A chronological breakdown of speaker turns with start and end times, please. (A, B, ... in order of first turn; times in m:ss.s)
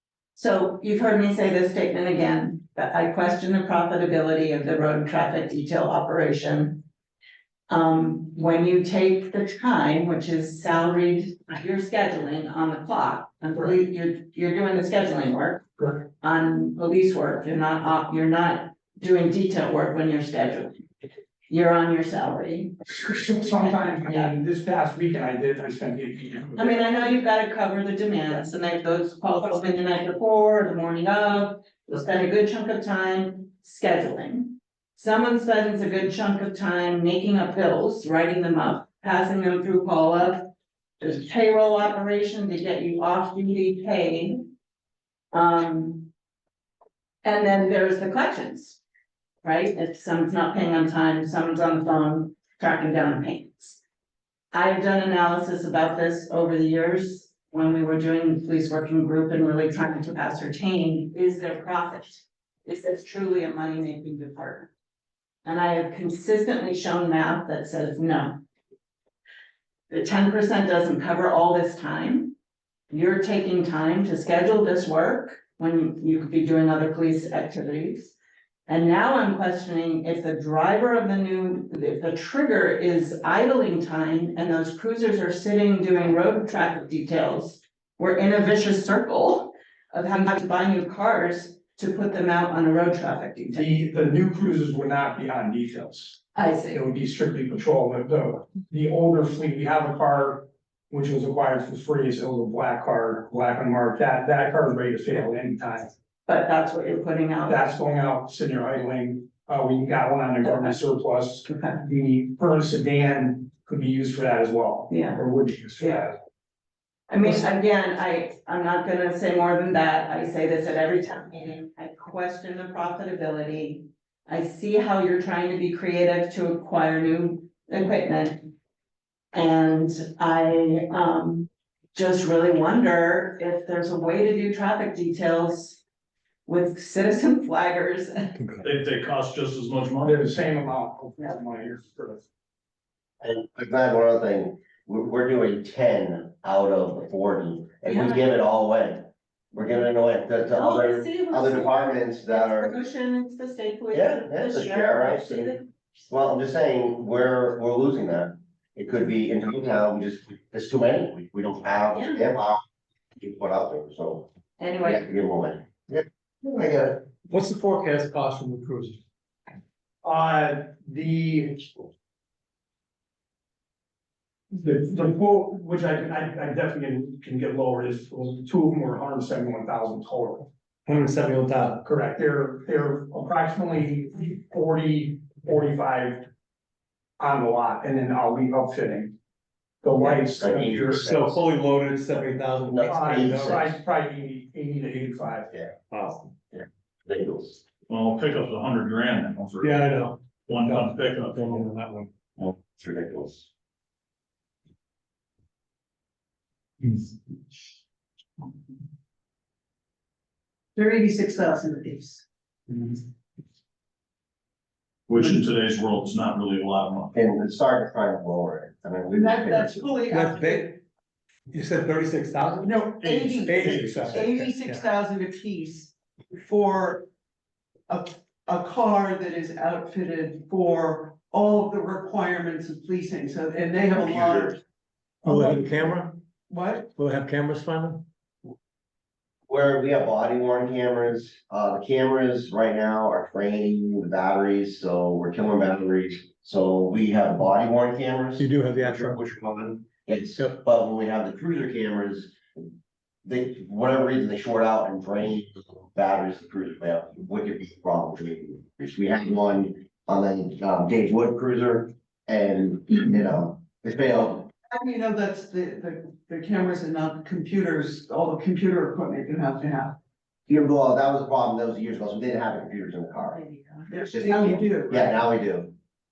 0:00.4-0:06.8 A
0:07.7-0:20.8 A
0:21.5-0:24.3 A
0:23.1-0:27.0 B
0:26.6-0:40.5 A
0:41.0-0:44.5 A
0:45.3-0:46.1 A
0:47.2-0:48.8 A
0:49.4-0:53.8 A
0:54.5-1:04.7 A
1:05.4-1:08.4 A
1:09.9-1:12.3 A
1:12.9-1:18.2 A
1:18.7-1:33.7 A
1:33.5-1:45.9 B
1:36.4-1:36.8 A
1:46.3-1:47.6 A
1:47.5-1:56.1 B
1:50.4-1:50.8 A
1:51.5-1:51.8 A
1:54.9-1:55.2 A
1:55.8-1:56.0 A
1:57.1-2:08.5 A
2:09.3-2:15.8 A
2:16.5-2:18.3 A
2:18.4-2:18.6 C
2:18.6-2:20.2 D
2:20.0-2:22.2 B
2:23.2-2:32.7 E
2:27.9-2:28.2 A
2:30.5-2:35.7 A
2:33.9-2:35.6 E
2:36.1-2:42.6 E
2:41.9-2:42.3 A
2:43.2-2:44.3 E
2:44.6-2:45.1 A
2:44.8-2:47.0 E
2:47.3-2:49.0 C
2:50.0-2:51.9 B
2:54.5-3:00.5 B
3:00.9-3:01.8 C
3:01.8-3:06.3 B
3:07.2-3:09.1 B
3:09.8-3:11.1 B
3:10.4-3:11.4 E
3:10.4-3:13.6 C
3:12.7-3:13.7 E
3:12.9-3:15.7 B
3:15.9-3:16.3 C
3:16.5-3:17.6 E
3:17.9-3:19.9 D
3:19.6-3:22.1 B
3:20.5-3:21.6 D
3:22.4-3:23.5 E
3:30.8-3:32.2 F
3:35.1-3:37.2 D
3:37.1-3:39.7 E
3:39.1-3:40.8 F
3:40.1-3:40.7 C
3:41.5-3:44.8 C
3:42.6-3:47.1 F
3:43.0-3:44.1 D
3:47.9-3:54.6 F
3:54.0-3:54.5 E
3:55.2-3:56.2 C
3:56.5-3:56.9 F
3:57.0-3:58.1 C
3:59.5-4:12.4 E
4:08.4-4:09.2 C
4:13.2-4:24.5 E
4:24.7-4:30.0 F
4:30.5-4:33.4 E
4:33.2-4:33.9 A
4:33.9-4:35.2 F
4:34.1-4:35.7 E